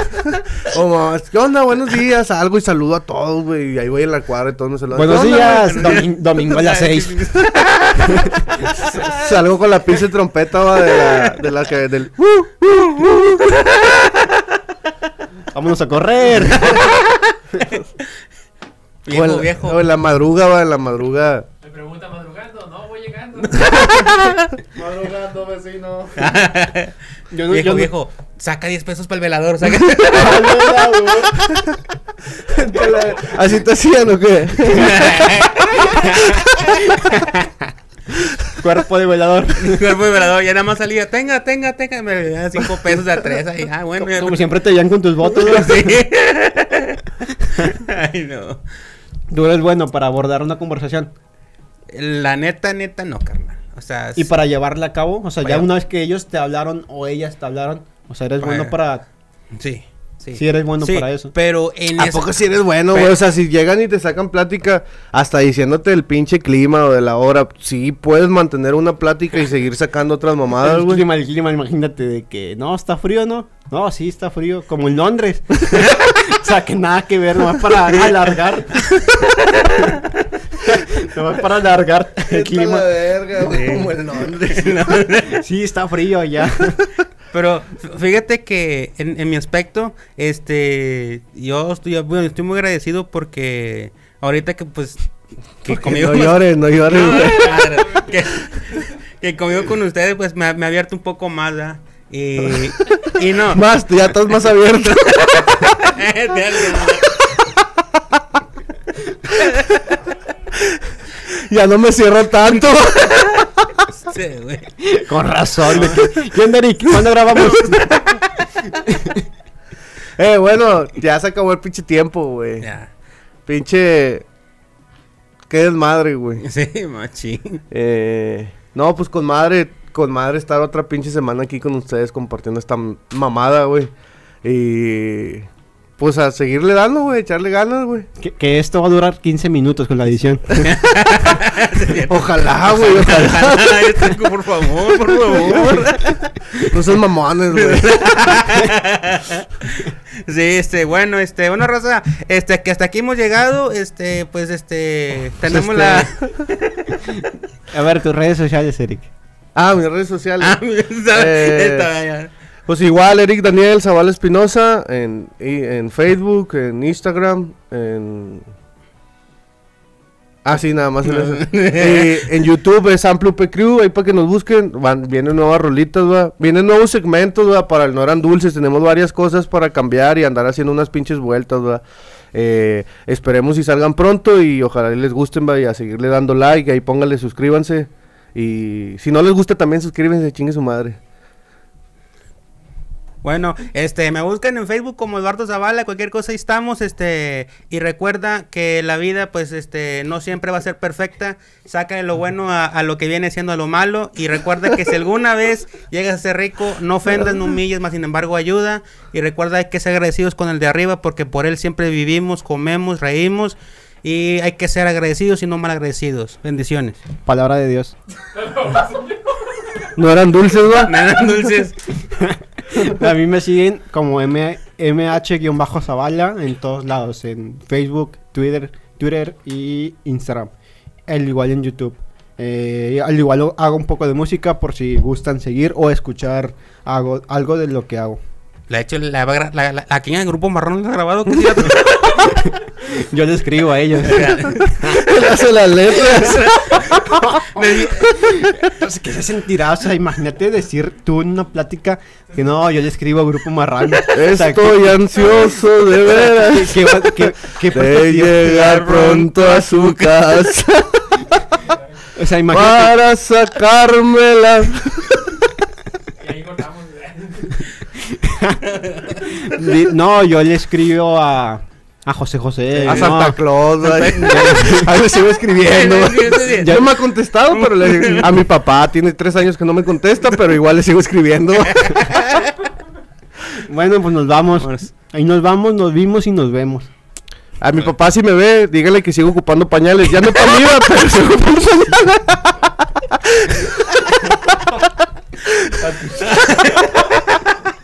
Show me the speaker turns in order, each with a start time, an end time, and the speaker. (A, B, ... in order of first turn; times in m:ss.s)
0:00.1-0:06.0 A
0:04.9-0:07.2 B
0:05.0-0:09.2 C
0:08.0-0:08.7 B
0:08.8-0:13.6 A
0:10.9-0:11.4 C
0:12.9-0:14.3 C
0:15.5-0:16.9 B
0:16.5-0:18.1 C
0:19.0-0:19.8 C
0:19.1-0:21.5 A
0:21.6-0:26.3 D
0:23.5-0:24.5 C
0:24.8-0:26.2 A
0:26.2-0:27.0 C
0:27.3-0:27.9 B
0:27.5-0:30.9 C
0:30.1-0:31.4 B
0:32.3-0:35.4 A
0:34.6-0:36.4 C
0:35.8-0:37.5 B
0:38.6-0:39.9 B
0:39.6-0:44.5 C
0:44.0-0:46.0 B
0:45.2-0:48.6 C
0:49.3-0:51.1 B
0:51.9-0:54.3 C
0:54.2-0:59.0 B
0:58.4-0:58.8 C
0:59.5-1:02.3 C
1:00.3-1:01.3 B
1:02.0-1:11.0 A
1:02.9-1:03.2 C
1:10.6-1:20.0 B
1:20.6-1:22.9 B
1:22.3-1:25.0 A
1:23.5-1:25.4 C
1:25.2-1:26.8 B
1:27.3-1:35.0 C
1:35.6-1:43.7 C
1:35.6-1:37.7 A
1:37.1-1:38.1 D
1:42.5-1:42.9 A
1:43.4-1:45.9 A
1:45.8-1:47.1 C
1:49.4-1:49.6 C
1:50.6-1:53.5 A
1:52.7-1:54.7 C
1:54.8-1:59.2 B
1:55.7-1:56.1 C
2:00.2-2:02.7 A
2:02.6-2:02.9 C
2:03.5-2:04.2 A
2:05.5-2:06.4 A
2:06.4-2:07.6 C
2:07.7-2:13.9 A
2:14.4-2:18.1 A
2:18.2-2:20.8 B
2:20.6-2:26.0 C
2:22.0-2:24.1 A
2:25.1-2:26.1 A
2:25.4-2:25.8 B
2:26.6-2:28.3 A
2:27.5-2:37.1 C
2:35.5-2:36.1 B
2:37.7-2:39.1 B
2:39.5-2:40.6 A
2:40.4-2:42.3 C
2:41.1-2:41.9 A
2:42.7-2:48.5 A
2:50.4-3:01.8 A
2:51.0-2:52.3 C
3:02.3-3:11.0 A
3:13.2-3:37.0 C
3:37.2-3:38.0 B
3:38.3-3:39.9 D
3:40.0-3:41.1 A
3:40.8-3:41.9 C
3:42.1-3:50.5 B
3:51.1-3:58.2 B
3:58.7-4:02.4 C
4:02.1-4:05.0 B
4:04.0-4:05.1 C
4:04.8-4:07.0 A
4:05.9-4:08.5 C
4:07.1-4:15.1 B
4:14.1-4:21.2 A
4:16.0-4:19.0 B
4:18.4-4:20.3 C
4:22.1-4:23.0 B
4:22.5-4:25.2 A
4:26.2-4:27.7 D
4:28.0-4:28.6 B
4:28.6-4:29.2 C
4:29.2-4:34.9 B
4:32.8-4:33.2 C
4:32.8-4:42.1 A
4:33.8-4:34.8 C
4:35.6-4:36.9 C
4:37.5-4:38.5 C
4:41.6-4:42.6 C
4:43.6-4:46.9 B
4:44.6-4:44.9 C
4:47.6-4:54.4 A
4:55.8-4:56.4 B
4:56.2-4:57.2 C